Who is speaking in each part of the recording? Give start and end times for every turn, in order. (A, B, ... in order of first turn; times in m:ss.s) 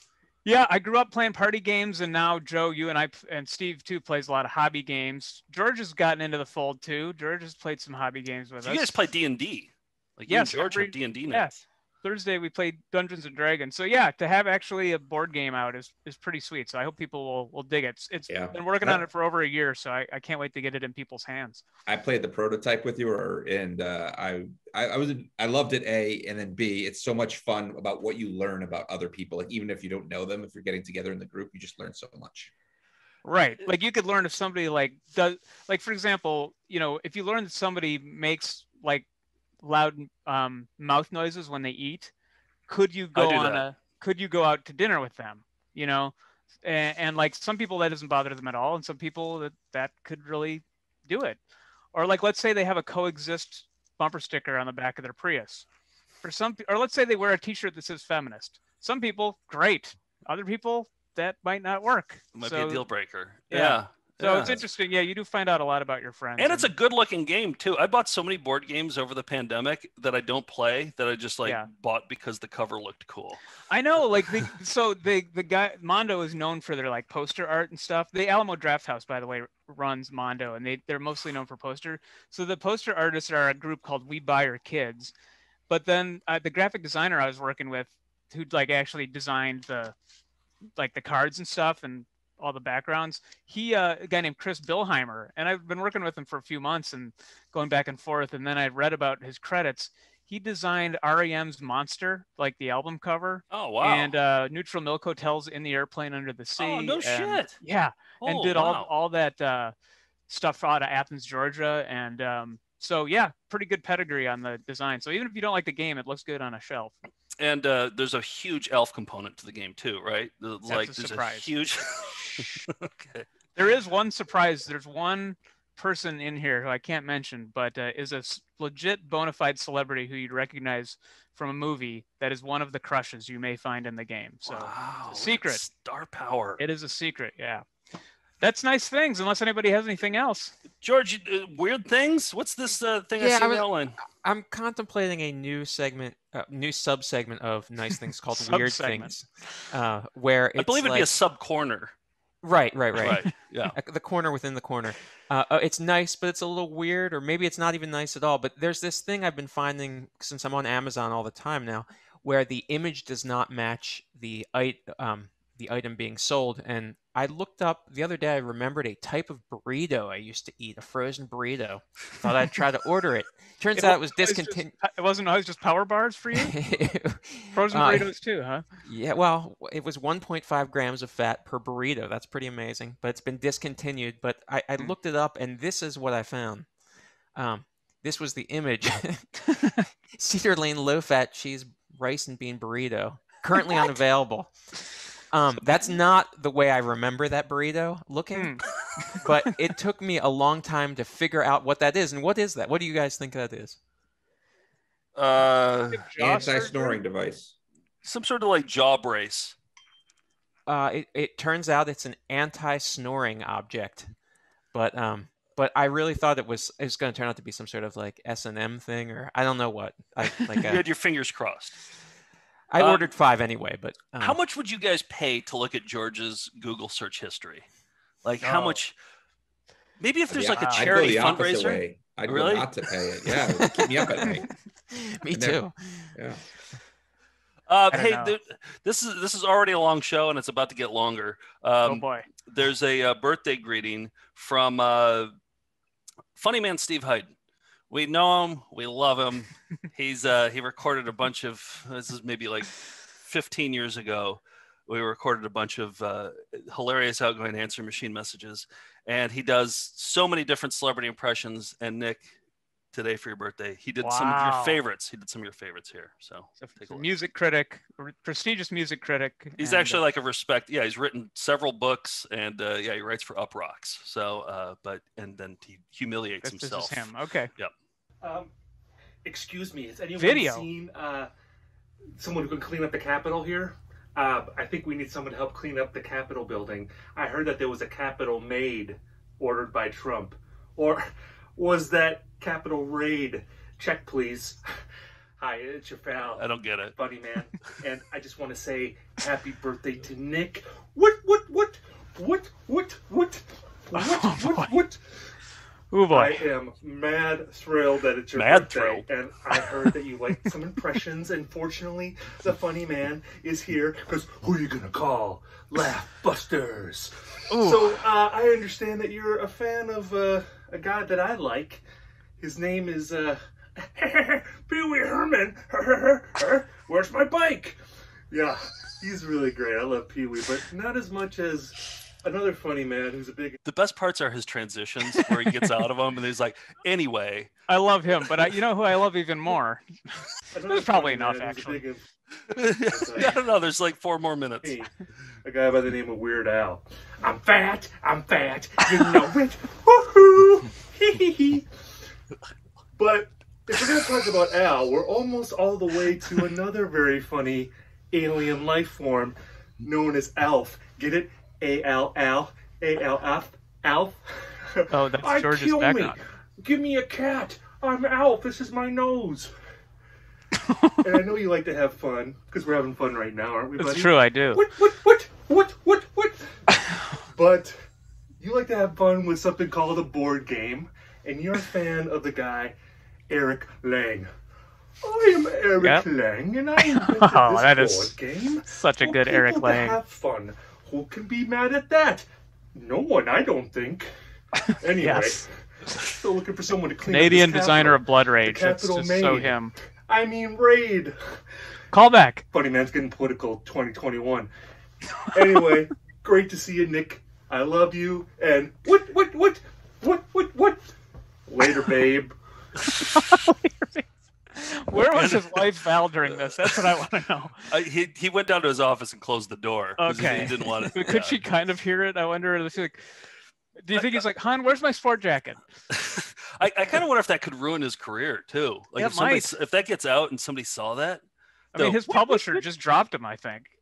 0:00.4-0:09.0 A
0:08.6-0:11.5 B
0:10.3-0:21.6 A
0:18.3-0:19.0 C
0:21.9-0:32.5 C
0:33.2-0:39.0 A
0:39.6-0:42.1 A
0:42.7-0:51.4 A
0:43.2-0:43.6 B
0:51.9-0:55.6 A
0:56.2-1:02.8 A
1:02.3-1:04.6 B
1:03.5-1:06.7 A
1:06.4-1:13.4 B
1:13.7-1:25.1 A
1:25.7-1:29.9 A
1:30.8-1:49.7 A
1:43.5-1:44.1 B
1:46.6-1:47.6 B
1:48.2-1:48.9 B
1:50.3-1:57.0 A
1:57.4-2:03.3 B
2:00.7-2:01.5 A
2:03.6-2:15.6 A
2:14.4-2:16.6 B
2:16.6-2:17.6 A
2:18.4-2:20.5 A
2:20.8-2:24.0 B
2:23.2-2:31.1 D
2:28.4-2:29.2 A
2:30.6-2:31.9 B
2:32.4-2:54.7 D
2:33.0-2:33.7 B
2:53.8-2:56.5 A
2:56.3-2:58.1 D
2:57.5-2:58.6 A
2:58.8-3:06.7 D
3:07.3-3:09.5 D
3:10.2-3:14.6 D
3:13.5-3:13.9 A
3:15.3-3:18.6 D
3:18.3-3:18.6 A
3:19.2-3:23.8 D
3:25.2-3:26.7 B
3:25.9-3:27.0 A
3:26.2-3:27.5 C
3:28.0-3:29.6 B
3:30.7-3:34.1 D
3:34.7-3:40.8 D
3:40.6-3:41.8 B
3:42.7-3:44.4 D
3:42.8-3:43.0 B
3:44.2-3:47.6 B
3:48.2-3:48.9 B
3:48.4-3:48.8 A
3:50.0-3:52.7 B
3:50.3-3:54.5 C
3:50.5-3:51.0 A
3:53.3-3:54.4 D
3:54.9-3:56.1 D
3:55.3-3:55.6 C
3:56.1-3:56.4 C
3:57.7-4:05.3 B
3:57.9-3:58.3 A
4:01.8-4:02.2 A
4:06.4-4:07.3 B
4:07.9-4:22.3 B
4:22.9-4:27.1 B
4:24.0-4:24.8 A
4:26.6-4:30.0 A
4:29.6-4:37.7 B
4:36.4-4:37.5 A
4:38.2-4:38.5 E
4:39.2-4:41.3 E
4:40.2-4:40.7 A
4:42.2-4:51.0 E
4:51.6-4:54.6 E
4:55.4-5:05.0 E
4:56.4-4:56.9 B
5:03.9-5:04.7 A
5:05.9-5:06.4 A
5:06.1-5:21.8 E
5:08.3-5:09.1 B
5:17.5-5:18.0 A
5:22.4-5:23.4 E
5:23.9-5:27.8 E
5:28.3-5:33.6 E
5:33.6-5:37.5 B
5:35.1-5:35.6 A
5:37.7-5:39.8 A
5:40.5-5:42.0 E
5:40.7-5:41.8 A
5:42.6-5:44.8 B
5:42.9-5:43.4 E
5:45.4-5:51.6 E
5:53.0-6:04.2 E
6:04.7-6:09.5 E
6:04.9-6:06.2 A
6:10.7-6:11.0 A
6:11.0-6:16.4 E
6:13.8-6:14.6 A
6:17.3-6:17.8 E
6:18.4-6:22.8 E
6:23.3-6:24.3 E
6:25.0-6:34.1 E
6:26.9-6:28.1 A
6:28.7-6:30.0 A
6:34.8-6:35.5 E
6:35.0-6:35.4 A
6:36.1-6:39.5 E
6:37.1-6:39.7 A
6:40.1-6:41.2 E
6:41.9-6:42.4 A
6:42.5-6:44.5 E
6:45.3-6:50.9 E
6:51.5-6:52.3 E
6:53.1-6:57.6 A
6:55.0-6:55.7 B
6:56.3-6:56.8 B
6:57.7-7:01.4 B
7:00.0-7:03.0 A
7:03.8-7:05.6 A
7:05.9-7:11.2 B
7:09.0-7:09.5 A
7:11.7-7:12.6 B
7:11.7-7:13.7 A